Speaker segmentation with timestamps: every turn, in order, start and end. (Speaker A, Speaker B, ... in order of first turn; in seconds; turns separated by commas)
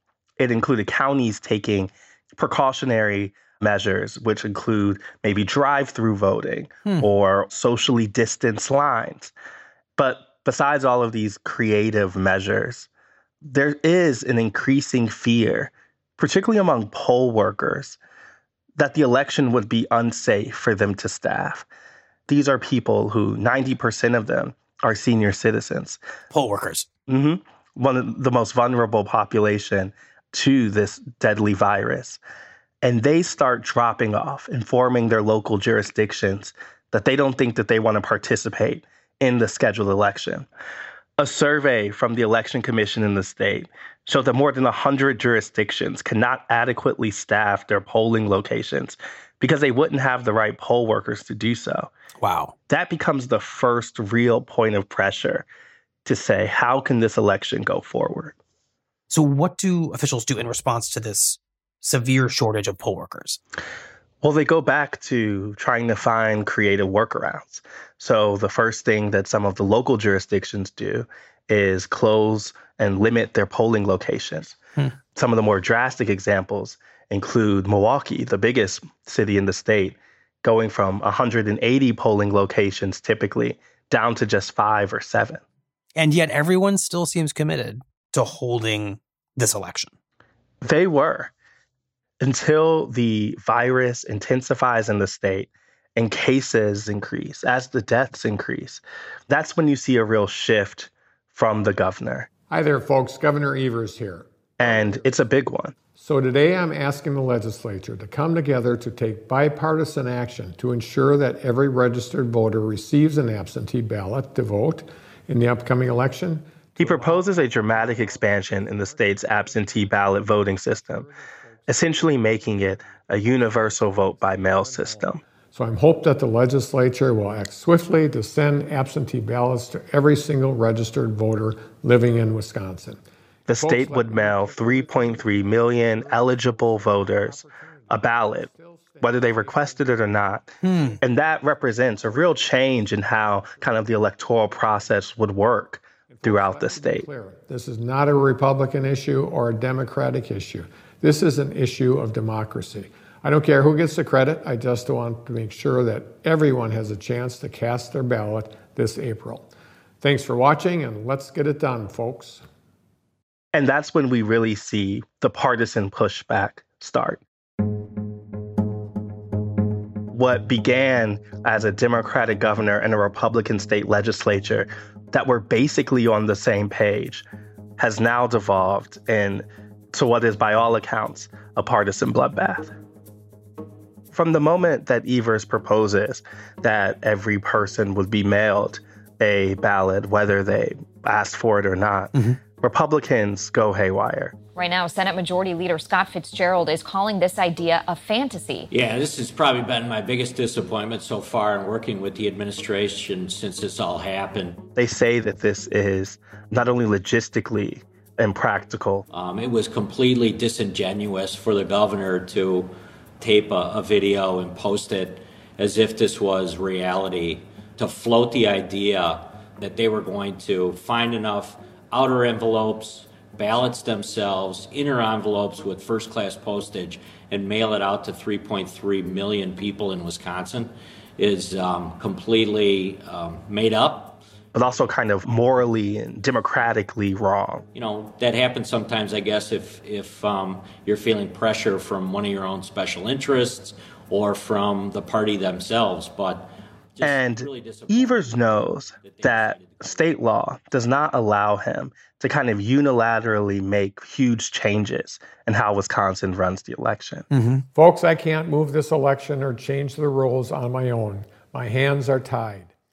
Speaker A: 0.4-9.3, Speaker A: 10.0-12.9, Speaker A: 13.4-18.0, Speaker A: 18.8-21.6, Speaker A: 22.3-26.0, Speaker B: 26.3-26.9, Speaker A: 27.1-32.2, Speaker A: 32.8-40.5, Speaker A: 41.2-51.9, Speaker B: 52.2-52.5, Speaker A: 52.7-55.5, Speaker A: 56.0-58.3, Speaker B: 59.1-63.4, Speaker A: 64.2-74.6, Speaker A: 75.1-85.4, Speaker B: 85.9-89.9, Speaker A: 90.6-91.3, Speaker A: 92.2-102.3, Speaker C: 102.5-105.0, Speaker A: 104.6-105.8, Speaker C: 106.0-133.0, Speaker A: 116.8-121.1, Speaker A: 121.7-125.2, Speaker A: 133.4-138.5, Speaker C: 133.6-140.1, Speaker A: 139.0-147.1, Speaker B: 140.6-141.0, Speaker C: 141.2-142.6, Speaker C: 143.2-144.0, Speaker C: 146.1-159.5, Speaker C: 160.0-162.4, Speaker A: 163.5-167.2, Speaker A: 170.1-177.2, Speaker A: 177.8-182.7, Speaker A: 184.1-194.3, Speaker D: 194.5-198.7, Speaker E: 198.7-204.6, Speaker A: 204.8-209.0, Speaker E: 209.1-234.2, Speaker A: 234.5-237.6, Speaker E: 237.7-250.0, Speaker A: 247.0-257.3, Speaker B: 257.3-257.6, Speaker C: 257.7-262.7